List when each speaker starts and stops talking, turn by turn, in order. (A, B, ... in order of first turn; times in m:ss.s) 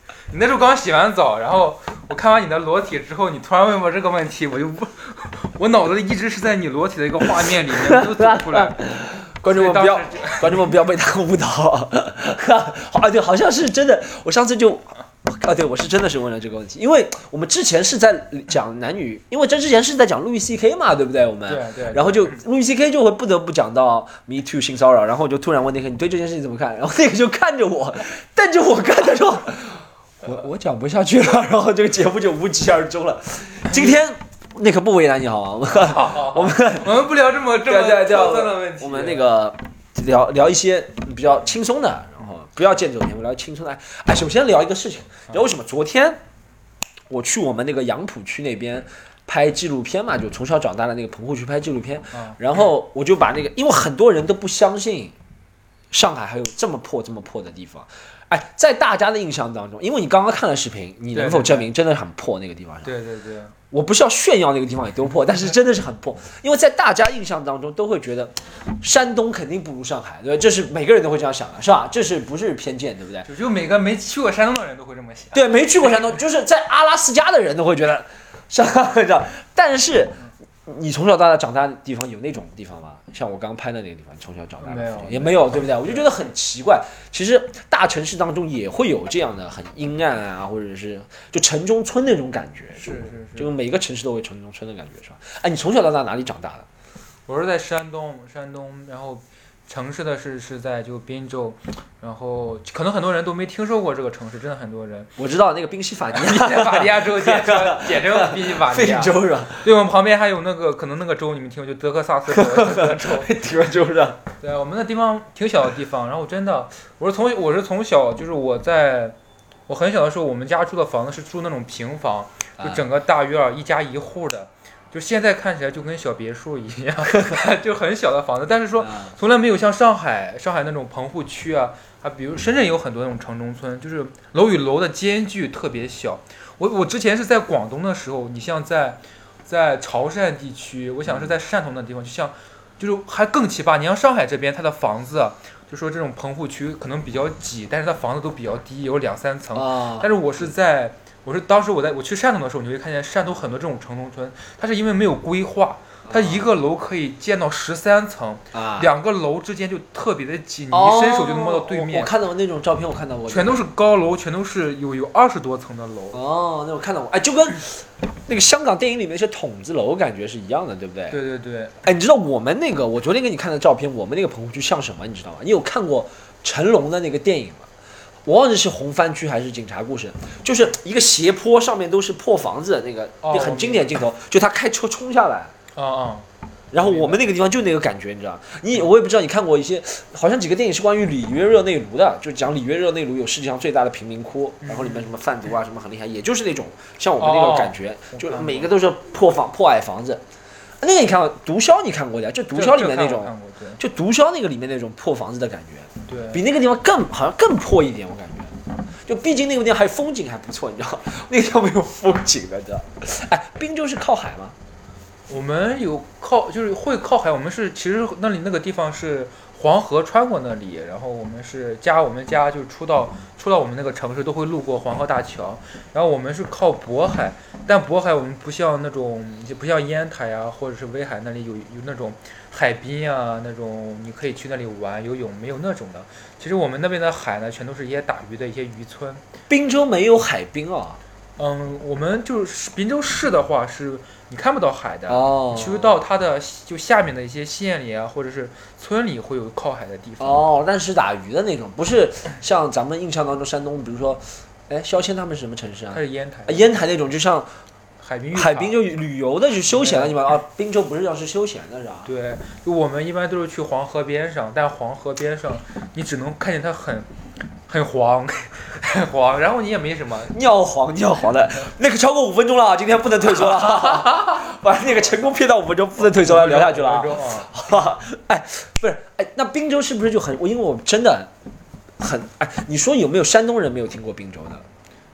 0:00.3-0:08.8 A
0:07.5-0:36.9 B
0:09.4-0:10.7 A
0:21.5-0:22.4 A
0:33.7-0:34.0 A
0:35.7-0:39.3 A
0:37.7-0:46.2 B
0:47.1-0:55.1 B
0:52.1-0:52.6 A
0:55.9-1:02.9 B
1:01.1-1:01.7 A
1:02.8-1:03.5 A
1:03.7-1:13.3 B
1:13.2-1:15.4 A
1:15.3-1:36.6 B
1:24.6-1:26.1 A
1:32.8-1:33.5 A
1:37.3-1:45.1 A
1:45.2-1:49.7 B
1:46.1-1:53.4 A
1:52.3-1:54.2 B
1:54.4-2:42.1 A
2:02.6-2:02.8 B
2:07.1-2:07.4 B
2:08.8-2:09.1 B
2:29.5-2:30.1 B
2:36.0-2:36.5 B
2:38.5-2:38.9 B
2:40.7-2:43.6 B
2:43.3-2:46.2 A
2:46.1-2:51.2 B
2:51.1-2:51.7 A
2:51.8-2:57.7 B
2:58.2-3:05.5 B
3:03.2-3:03.9 A
3:05.7-3:06.2 A
3:06.7-3:20.2 B
3:06.8-3:07.2 A
3:14.6-3:15.1 A
3:17.2-3:18.7 A
3:20.8-3:34.6 B
3:22.5-3:23.8 A
3:26.1-3:26.4 A
3:35.3-3:59.2 A
3:59.5-4:01.0 B
4:01.4-4:10.4 A
4:05.1-4:06.0 B
4:10.2-4:17.5 B
4:15.9-4:16.7 A
4:18.0-4:18.8 A
4:18.3-4:22.1 B
4:19.7-4:20.2 A
4:22.0-4:27.1 A
4:27.6-4:30.3 A
4:30.3-4:41.3 B
4:33.4-4:34.2 A
4:36.0-4:37.6 A
4:42.0-4:44.6 B